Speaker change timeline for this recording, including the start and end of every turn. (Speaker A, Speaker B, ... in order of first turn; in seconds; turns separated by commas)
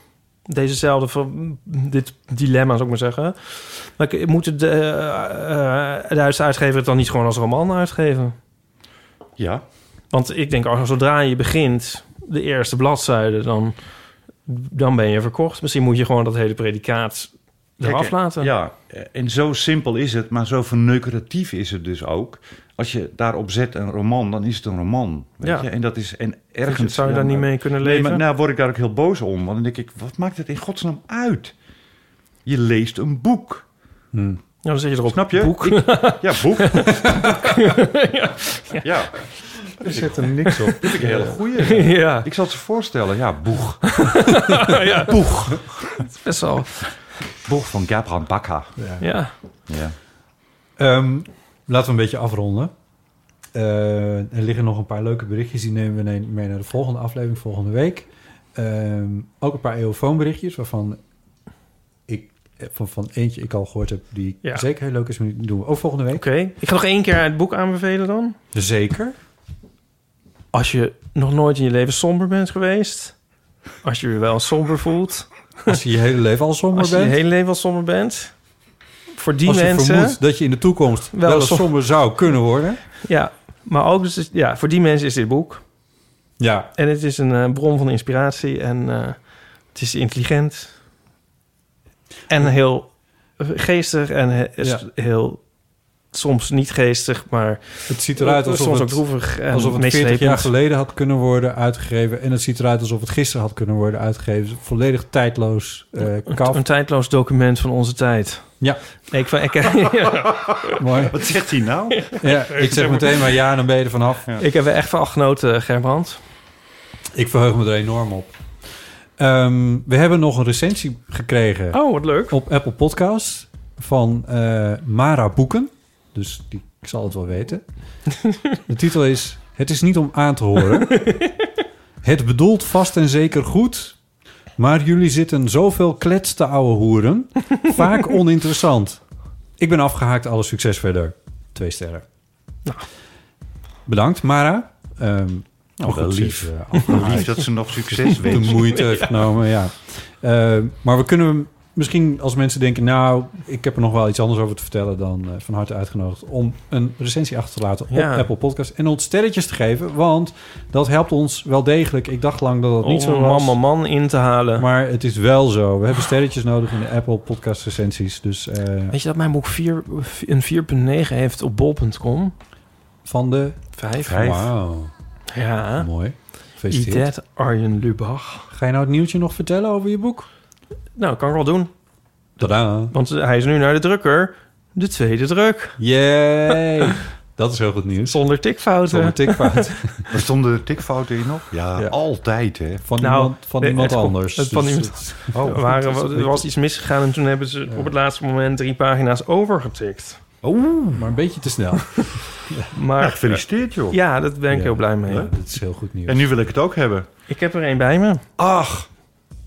Speaker A: 0.5-8.3, Speaker B: 9.4-9.6, Speaker A: 10.1-13.8, Speaker A: 14.4-18.5, Speaker B: 17.8-31.5, Speaker A: 25.4-25.7, Speaker A: 26.7-28.2, Speaker B: 32.4-33.6, Speaker C: 34.1-34.4, Speaker A: 34.6-38.9, Speaker B: 35.1-37.4, Speaker B: 38.8-39.2, Speaker C: 39.8-41.4, Speaker B: 39.8-46.0, Speaker A: 40.4-42.3, Speaker A: 43.9-46.8, Speaker B: 47.4-48.7, Speaker C: 48.8-49.0, Speaker A: 49.0-49.3, Speaker B: 49.7-49.9, Speaker C: 50.8-52.7, Speaker C: 53.5-61.0, Speaker C: 62.1-66.2, Speaker A: 66.1-68.3, Speaker C: 68.5-69.2, Speaker A: 70.5-73.1, Speaker A: 73.8-75.8, Speaker C: 75.7-77.2, Speaker A: 76.7-78.3, Speaker A: 79.1-80.2, Speaker C: 79.4-82.8, Speaker A: 81.1-81.7, Speaker A: 83.0-85.6, Speaker C: 86.4-86.7, Speaker A: 86.8-90.7, Speaker A: 92.3-95.4, Speaker A: 96.1-100.5, Speaker C: 97.9-106.6, Speaker A: 106.3-108.6, Speaker A: 109.1-111.1, Speaker C: 110.8-111.2, Speaker B: 111.1-112.1, Speaker A: 111.9-113.3, Speaker C: 112.2-114.3, Speaker A: 114.4-116.2, Speaker C: 117.1-118.3, Speaker C: 119.2-127.6, Speaker A: 121.7-122.4, Speaker C: 128.7-131.2, Speaker A: 130.9-131.3, Speaker C: 132.0-134.0, Speaker C: 134.6-139.0, Speaker C: 139.6-142.0, Speaker C: 143.8-163.6, Speaker B: 145.8-148.7, Speaker A: 146.9-147.4, Speaker A: 148.0-149.2, Speaker A: 157.9-158.3, Speaker A: 162.8-164.7, Speaker C: 164.6-168.9, Speaker A: 168.9-172.3, Speaker C: 173.0-174.9, Speaker A: 173.8-174.3, Speaker B: 174.0-174.5, Speaker A: 175.3-175.9, Speaker C: 175.8-177.1, Speaker A: 176.6-178.5, Speaker C: 178.5-180.3, Speaker A: 180.9-181.7, Speaker C: 182.4-182.9, Speaker A: 182.9-185.8, Speaker C: 185.8-188.2, Speaker A: 188.1-189.9, Speaker C: 188.8-190.1, Speaker B: 190.1-192.8, Speaker C: 192.8-196.4, Speaker A: 193.0-200.2, Speaker B: 195.3-196.2, Speaker C: 197.7-197.9, Speaker B: 200.4-201.1, Speaker C: 200.9-202.7, Speaker A: 202.7-205.3, Speaker B: 203.0-204.0, Speaker C: 204.5-206.3, Speaker B: 206.1-207.1, Speaker A: 207.3-208.2, Speaker B: 208.4-208.9